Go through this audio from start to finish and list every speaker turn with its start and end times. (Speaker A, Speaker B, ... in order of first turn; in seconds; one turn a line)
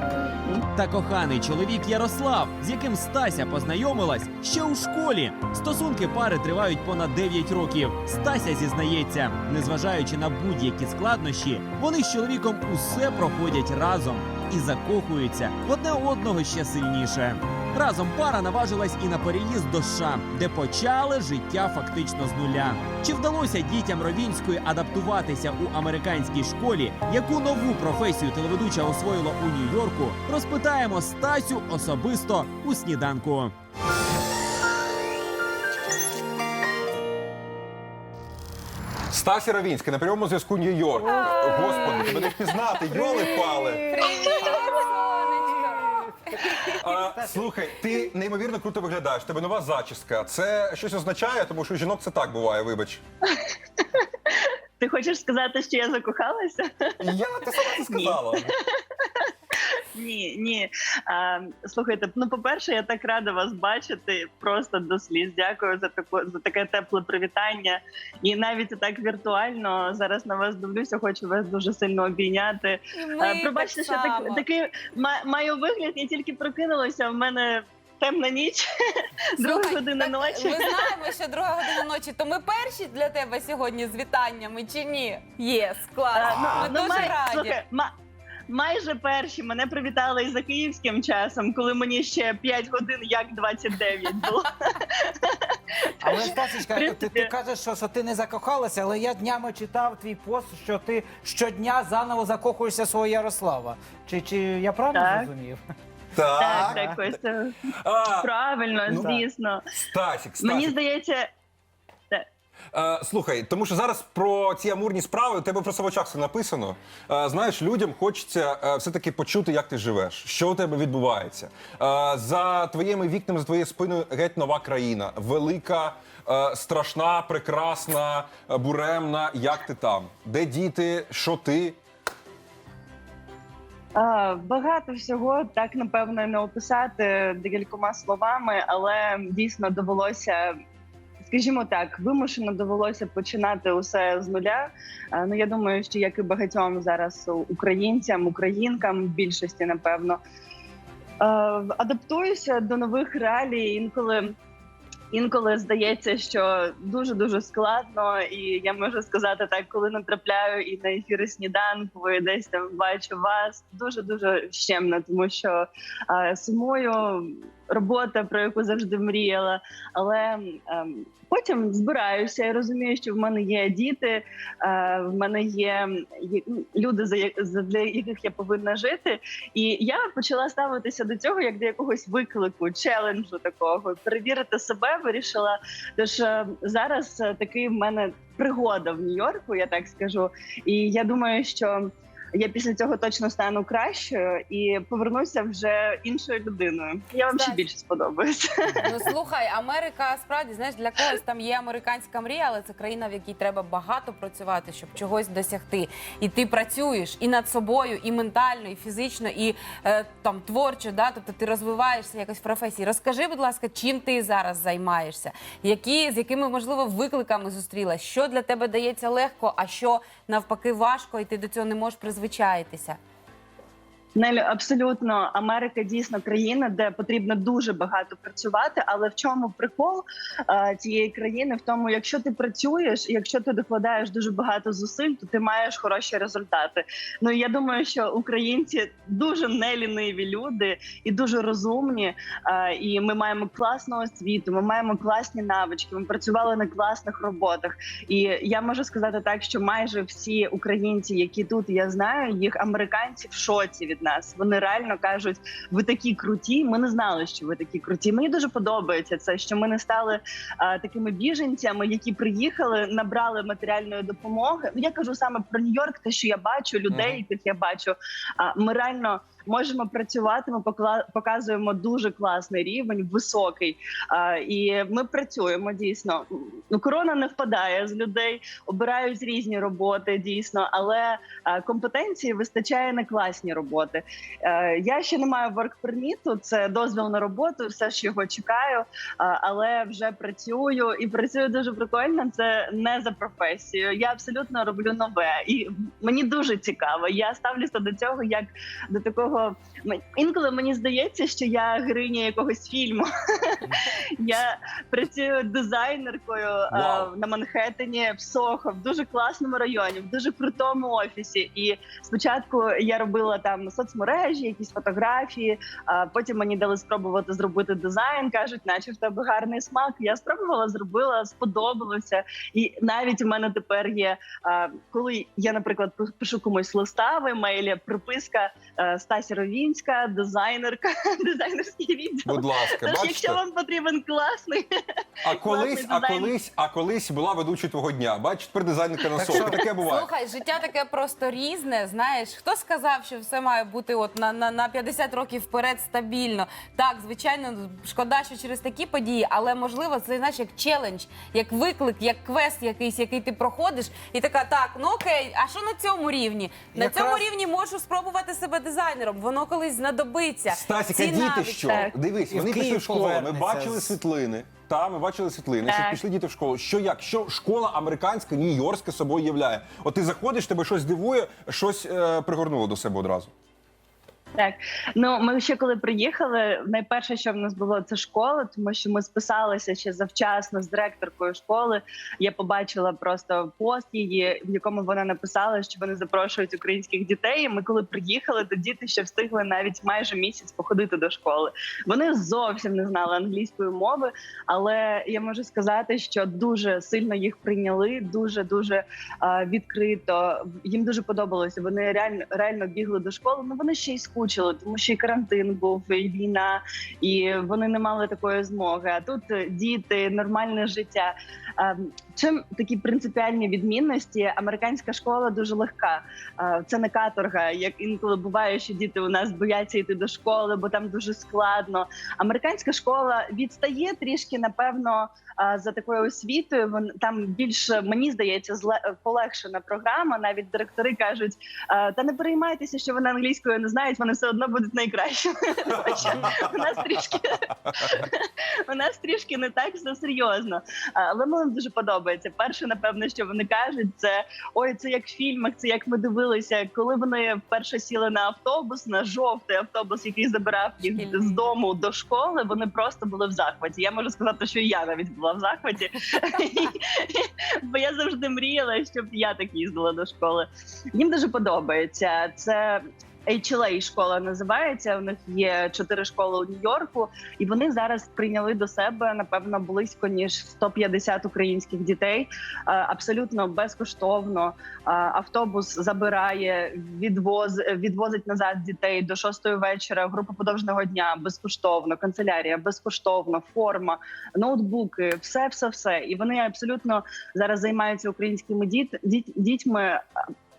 Speaker A: 0.8-33.5
Speaker B: 39.1-43.9
Speaker C: 41.0-42.3
Speaker C: 43.0-46.8
Speaker B: 46.8-53.0
Speaker D: 54.0-57.0
Speaker B: 57.0-58.5
Speaker D: 57.8-59.3
Speaker D: 60.0-78.6
Speaker C: 73.0-74.4
Speaker D: 79.4-80.9
Speaker C: 79.4-87.6
Speaker D: 86.1-87.9
Speaker D: 88.5-95.5
Speaker E: 96.0-105.6
Speaker D: 96.1-97.3
Speaker D: 104.9-105.3
Speaker B: 106.2-107.2
Speaker D: 106.4-107.5
Speaker E: 106.5-107.0
Speaker B: 107.8-108.3
Speaker D: 108.2-109.6
Speaker B: 108.8-109.1
Speaker E: 108.9-109.2
Speaker B: 109.8-110.7
Speaker D: 110.4-111.3
Speaker B: 112.7-131.8
Speaker D: 133.9-140.5
Speaker D: 141.3-150.2
Speaker D: 151.2-154.3
Speaker D: 155.1-198.9
Speaker C: 197.3-197.6
Speaker C: 198.8-223.0
Speaker D: 224.1-334.6
Speaker B: 306.7-307.1
Speaker B: 332.2-333.4
Speaker B: 335.2-340.1
Speaker D: 335.4-336.3
Speaker E: 339.2-339.6
Speaker C: 339.8-361.9
Speaker E: 356.7-357.2
Speaker B: 360.5-373.3
Speaker E: 362.3-364.0
Speaker D: 365.6-366.0
Speaker D: 374.4-490.0
Speaker C: 450.9-451.5